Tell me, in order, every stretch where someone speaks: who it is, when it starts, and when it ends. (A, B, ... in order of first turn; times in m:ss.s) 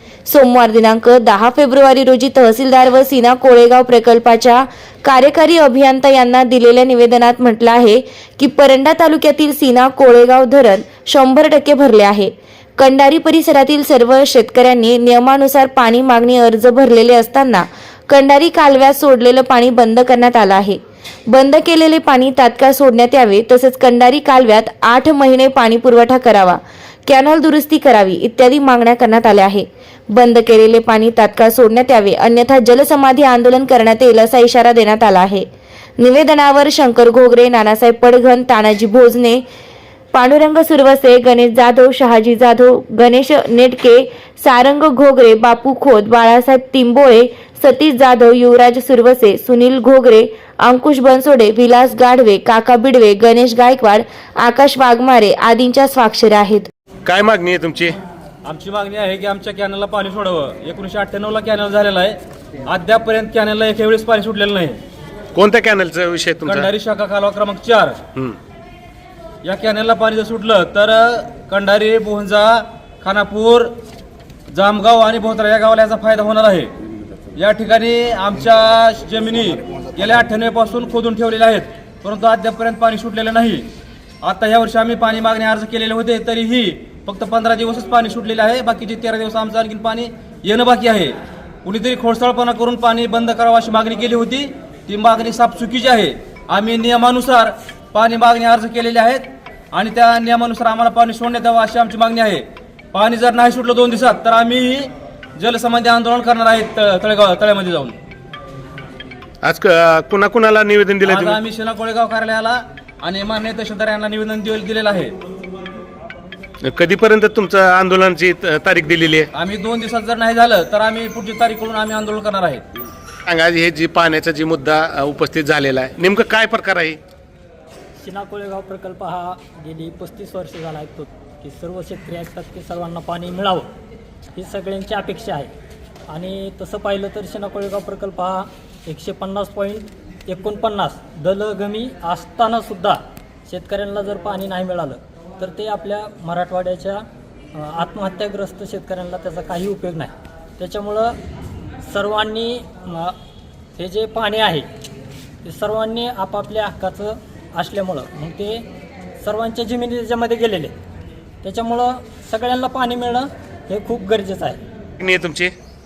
0:00.3-0:35.5 A
0:36.0-0:39.4 A
0:40.1-0:56.7 A
0:57.0-0:58.0 B
0:58.4-1:02.2 C
1:02.7-1:04.8 C
1:05.3-1:06.7 B
1:06.4-1:08.0 C
1:09.4-1:13.7 C
1:14.5-1:16.7 C
1:17.4-1:23.7 C
1:24.2-1:47.9 C
1:49.4-1:51.4 B
1:51.0-1:55.1 C
1:56.6-1:59.3 B
1:59.3-2:02.6 C
2:03.3-2:07.0 B
2:08.0-2:13.7 D
2:14.3-2:15.5 D
2:16.1-2:31.2 D
2:31.8-2:33.2 D
2:33.8-2:34.7 D
2:35.4-2:38.7 D
2:39.2-2:40.7 D
2:41.4-2:44.6 D
2:45.0-2:45.5 B